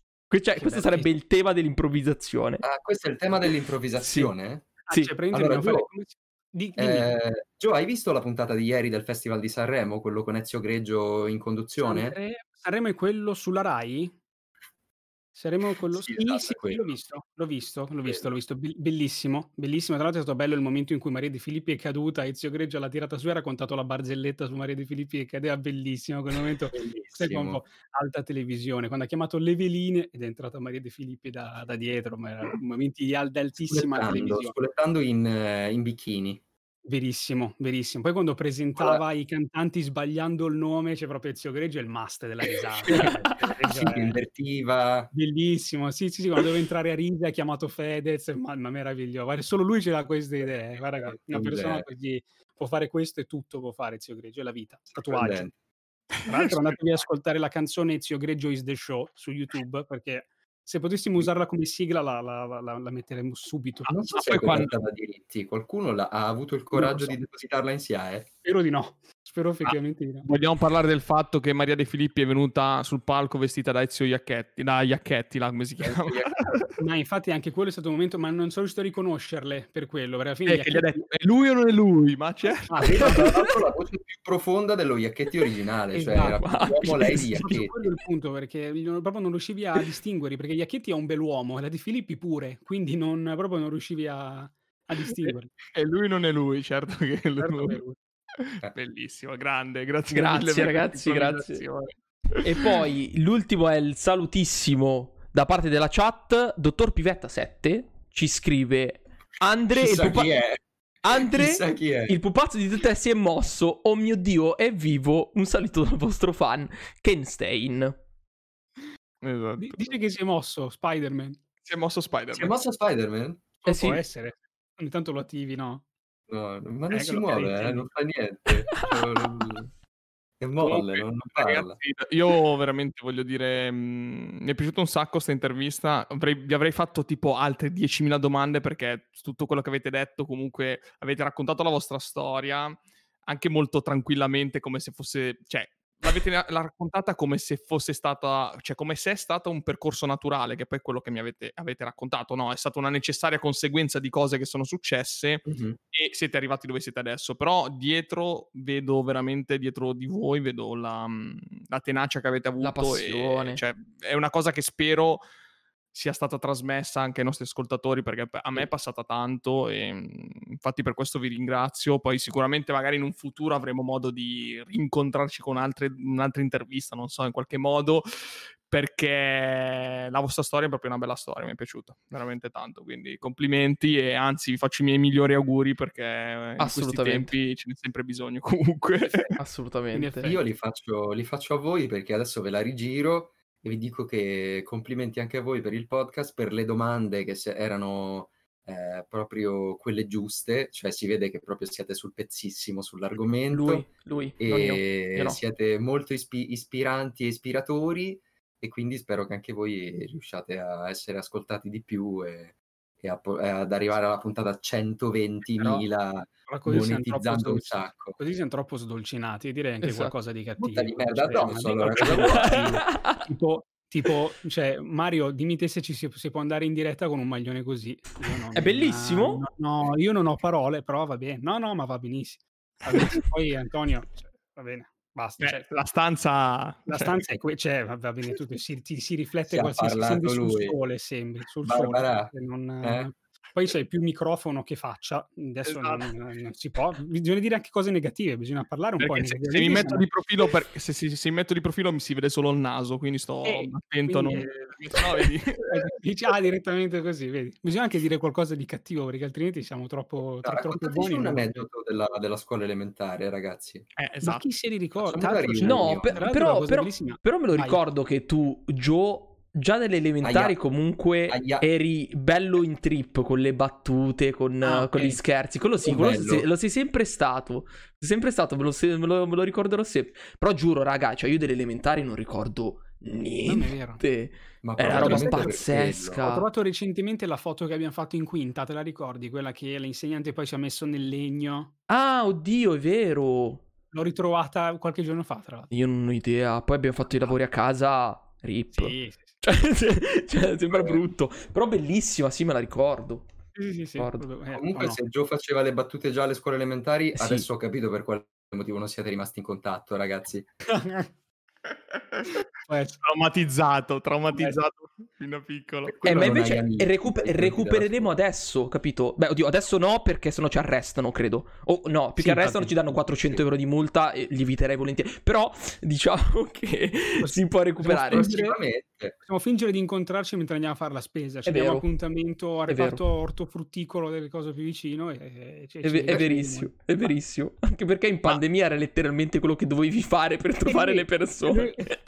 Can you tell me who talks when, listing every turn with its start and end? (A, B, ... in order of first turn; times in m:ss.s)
0:00.3-0:02.6 A
0:00.6-0:01.1 B
0:02.6-0:04.8 C
0:04.0-0:04.3 A
0:04.9-0:07.1 B
0:05.3-0:05.9 C
0:06.8-0:12.2 C
0:11.8-0:14.1 B
0:15.3-0:34.5 B
0:15.9-0:16.8 C
0:26.7-0:27.6 C
0:33.6-0:36.4 C
0:36.8-0:44.2 B
0:42.9-0:45.1 C
0:45.1-0:55.5 B
0:51.1-0:51.9 C
0:54.9-0:55.5 C
0:56.2-1:04.0 B
1:03.8-1:08.3 C
1:04.1-1:04.7 D
1:06.7-1:07.2 B
1:08.4-1:10.3 B
1:09.6-1:16.7 D
1:15.8-1:16.4 C
1:16.8-1:21.0 B
1:20.5-1:23.2 D
1:22.6-1:23.4 B
1:22.8-1:27.8 C
1:25.9-1:35.5 B
1:26.2-1:27.6 A
1:35.2-1:37.8 D
1:37.4-1:38.0 B
1:38.4-1:42.5 D
1:40.1-1:41.6 A
1:42.4-1:50.4 A
1:49.7-1:52.2 C
1:51.0-1:57.9 A
1:59.2-1:59.9 D
1:59.6-2:01.4 B
2:01.6-2:02.5 D
2:02.3-2:03.4 C
2:03.6-2:05.8 B
2:03.7-2:04.0 A
2:06.3-2:09.7 C
2:06.9-2:07.9 B
2:10.4-2:11.8 C
2:10.6-2:45.2 D
2:35.4-2:35.8 C
2:42.6-2:43.6 A
2:45.9-3:09.3 D
3:06.6-3:07.3 A
3:09.0-3:09.3 B
3:09.4-3:10.2 A
3:09.9-3:10.4 B
3:10.2-3:38.2 C
3:23.5-3:25.4 A
3:36.5-3:55.6 B
3:39.8-3:40.1 A
3:40.6-3:42.6 C
3:42.0-3:43.1 A
3:48.5-3:49.4 A
3:55.4-3:57.2 D
3:56.9-4:10.1 B
3:59.5-4:00.7 C
4:01.6-4:02.3 C
4:02.8-4:03.1 C
4:05.6-4:06.1 D
4:09.0-4:15.8 D
4:13.4-4:15.0 B
4:15.6-4:21.6 B
4:20.4-4:23.8 C
4:24.0-4:24.4 D
4:24.2-4:27.8 B
4:25.0-4:26.2 C
4:25.6-4:46.4 A
4:30.2-4:30.6 C
4:31.3-4:31.7 C
4:34.6-4:35.2 B
4:35.8-4:36.5 C
4:43.4-4:44.0 B
4:44.6-4:46.2 C
4:44.8-4:45.6 B
4:46.2-4:51.7 B
4:51.9-4:53.6 A
4:53.9-4:55.7 B
4:55.7-5:03.3 A
4:57.1-4:57.3 B
4:58.7-4:59.4 B
5:00.7-5:01.0 C
5:03.5-5:05.0 B
5:03.9-5:04.2 A
5:04.5-5:10.5 C
5:07.1-5:07.5 A
5:10.7-5:11.1 B
5:11.9-5:12.4 D
5:12.6-5:13.0 B
5:13.0-5:16.0 D
5:14.3-5:14.6 B
5:15.8-5:18.2 C
5:16.0-5:28.3 A
5:22.2-5:22.8 B
5:23.2-5:23.4 C
5:27.2-5:28.6 B
5:28.0-5:29.2 C
5:29.2-5:37.1 B
5:31.4-5:31.8 A
5:32.7-5:33.0 A
5:35.8-5:42.0 A
5:40.6-5:41.8 B